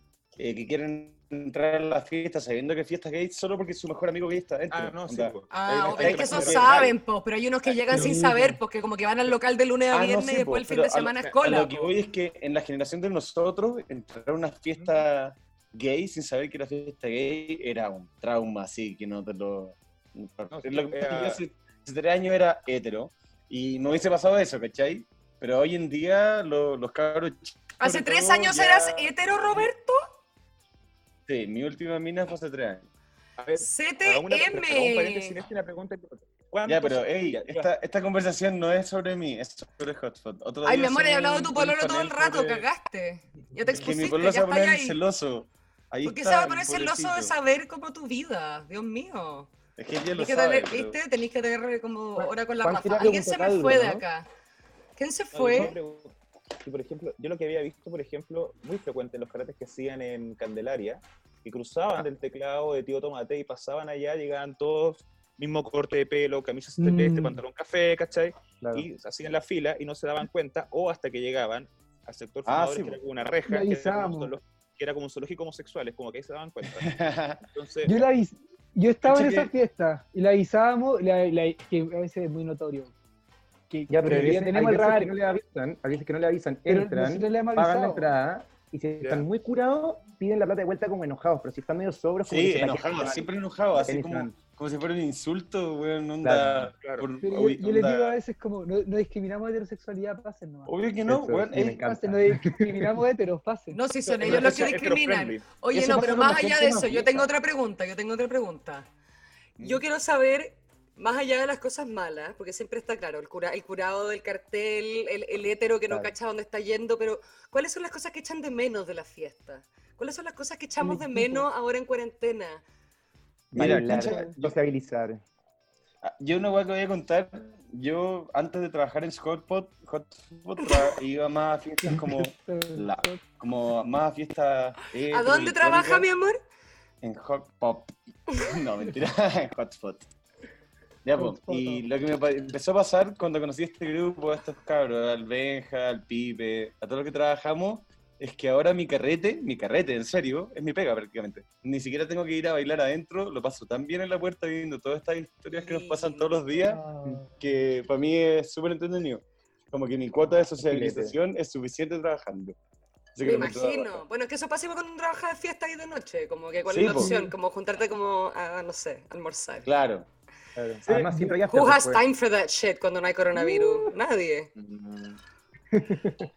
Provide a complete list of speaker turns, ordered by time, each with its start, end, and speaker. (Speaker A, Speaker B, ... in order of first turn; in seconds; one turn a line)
Speaker A: 0.4-6.9
Speaker B: 4.7-6.9
Speaker C: 5.5-11.9
Speaker D: 7.9-8.6
Speaker A: 9.9-29.1
Speaker B: 20.5-21.4
Speaker C: 27.8-30.0
Speaker A: 31.3-32.9
Speaker B: 33.4-37.7
Speaker C: 33.6-35.4
Speaker A: 36.6-42.6
Speaker C: 40.6-45.0
Speaker A: 43.7-47.3
Speaker C: 46.0-49.5
Speaker A: 49.8-51.0
Speaker C: 50.1-54.3
Speaker E: 52.2-54.0
Speaker C: 55.0-55.8
Speaker B: 55.3-76.9
Speaker D: 66.8-67.4
Speaker E: 68.6-68.8
Speaker A: 72.5-73.0
Speaker D: 73.5-74.3
Speaker A: 76.6-77.4
Speaker B: 77.5-78.0
Speaker D: 77.8-82.9
Speaker A: 79.0-79.5
Speaker D: 83.7-85.1
Speaker E: 83.9-93.3
Speaker D: 86.7-88.1
Speaker B: 89.0-89.2
Speaker A: 92.3-98.2
Speaker E: 93.8-94.4
Speaker E: 96.2-96.7
Speaker B: 96.8-97.1
Speaker D: 97.2-100.7
Speaker A: 100.7-101.8
Speaker E: 101.0-103.0
Speaker D: 101.7-103.8
Speaker C: 103.7-108.8
Speaker B: 104.1-105.4
Speaker A: 104.2-104.6
Speaker A: 105.7-107.3
Speaker C: 109.6-122.6
Speaker D: 120.8-121.5
Speaker E: 123.5-125.2
Speaker A: 123.5-124.5
Speaker A: 126.0-136.1
Speaker D: 131.8-133.2
Speaker C: 135.1-136.4
Speaker A: 137.0-140.1
Speaker A: 141.0-156.8
Speaker D: 141.1-141.8
Speaker C: 155.5-156.5
Speaker D: 156.7-157.3
Speaker A: 157.3-162.5
Speaker E: 160.6-161.2
Speaker A: 163.1-164.0
Speaker C: 163.2-169.7
Speaker A: 166.7-167.1
Speaker D: 167.0-167.3
Speaker A: 169.6-170.1
Speaker E: 170.6-172.0
Speaker D: 171.0-171.3
Speaker C: 171.5-174.5
Speaker B: 174.6-175.2